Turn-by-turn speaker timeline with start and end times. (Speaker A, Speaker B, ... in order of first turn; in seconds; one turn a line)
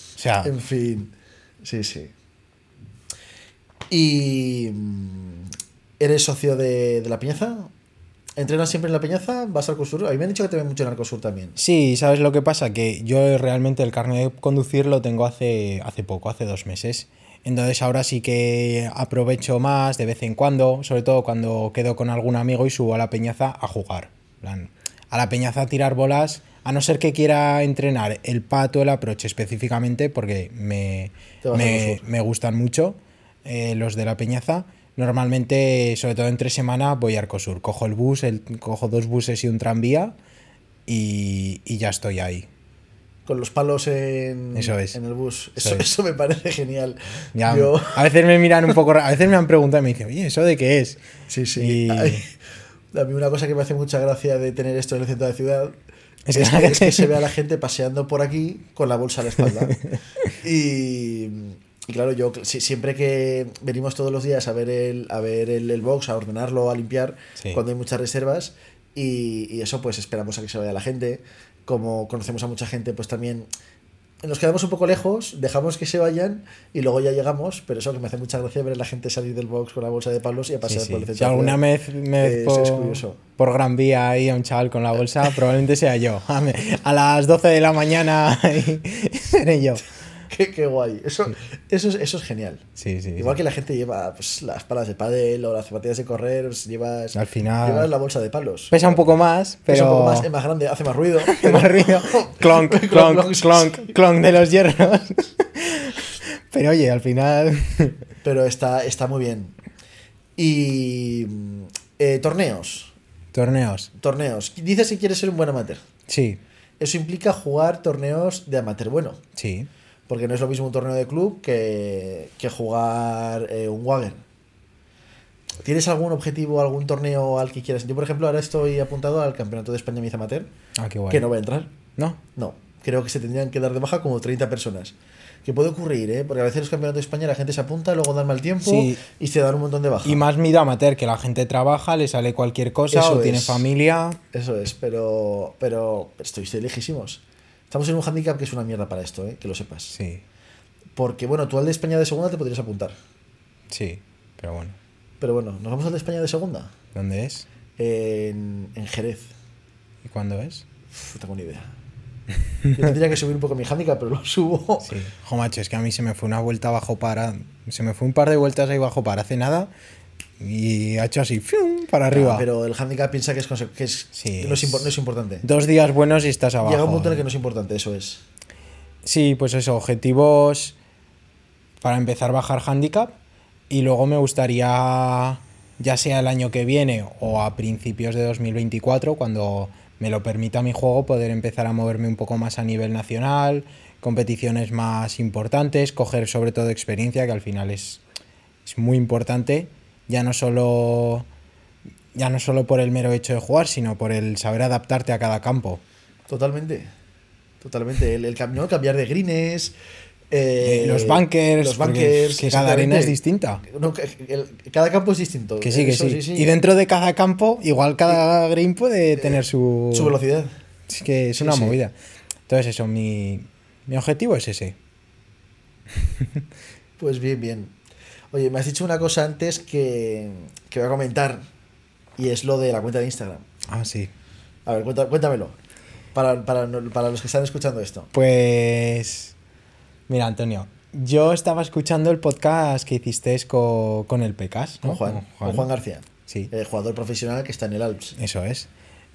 Speaker A: 0.2-0.5
Speaker B: 0.4-1.1
Speaker B: 1.6-2.1
Speaker B: 3.9-5.5
Speaker B: 6.0-7.7
Speaker B: 8.4-11.6
Speaker A: 11.6-40.1
Speaker B: 31.4-32.0
Speaker A: 40.9-42.5
Speaker B: 43.3-48.1
Speaker A: 44.5-45.0
Speaker A: 45.6-45.9
Speaker A: 47.4-51.0
Speaker B: 51.3-52.3
Speaker A: 51.5-52.2
Speaker B: 52.9-55.8
Speaker A: 56.3-57.1
Speaker B: 56.3-73.5
Speaker A: 59.4-60.0
Speaker B: 74.2-81.6
Speaker A: 80.7-89.8
Speaker B: 82.2-83.2
Speaker B: 90.3-92.7
Speaker A: 92.8-93.4
Speaker B: 93.2-99.0
Speaker A: 97.1-97.9
Speaker A: 98.7-100.3
Speaker B: 99.7-104.0
Speaker A: 101.2-108.0
Speaker B: 108.2-109.5
Speaker B: 110.4-112.9
Speaker A: 113.3-113.9
Speaker B: 114.0-115.8
Speaker A: 116.1-116.4
Speaker B: 116.8-119.2
Speaker A: 119.4-119.7
Speaker B: 120.1-124.2
Speaker B: 125.6-130.5
Speaker A: 130.8-131.3
Speaker B: 131.1-131.7
Speaker B: 132.4-140.2
Speaker A: 138.6-139.0
Speaker A: 140.1-144.2
Speaker B: 142.9-143.7
Speaker B: 144.3-150.0
Speaker A: 149.9-150.2
Speaker B: 151.0-152.9
Speaker A: 153.7-154.8
Speaker B: 155.2-156.7
Speaker A: 156.9-157.5
Speaker B: 157.8-159.3
Speaker A: 160.0-160.7
Speaker B: 160.9-161.7
Speaker B: 162.7-164.9
Speaker A: 164.8-169.7
Speaker A: 170.4-172.5
Speaker B: 172.1-175.5
Speaker A: 174.2-177.2
Speaker B: 176.6-178.2
Speaker A: 179.0-180.8
Speaker A: 181.8-183.2
Speaker A: 183.7-198.0
Speaker A: 198.6-201.3
Speaker A: 202.1-205.8
Speaker B: 206.3-206.9
Speaker B: 207.6-209.7
Speaker B: 210.3-216.5
Speaker A: 210.6-213.6
Speaker A: 215.6-220.2
Speaker B: 219.9-220.5
Speaker A: 220.9-221.9
Speaker B: 221.4-221.8
Speaker A: 222.5-224.8
Speaker A: 226.2-226.4
Speaker B: 227.0-227.7
Speaker B: 228.3-231.4
Speaker B: 232.2-233.5
Speaker A: 233.7-234.1
Speaker B: 234.7-235.6
Speaker B: 236.1-238.1
Speaker A: 238.1-239.3
Speaker A: 240.1-245.7
Speaker B: 244.8-248.2
Speaker A: 248.2-248.7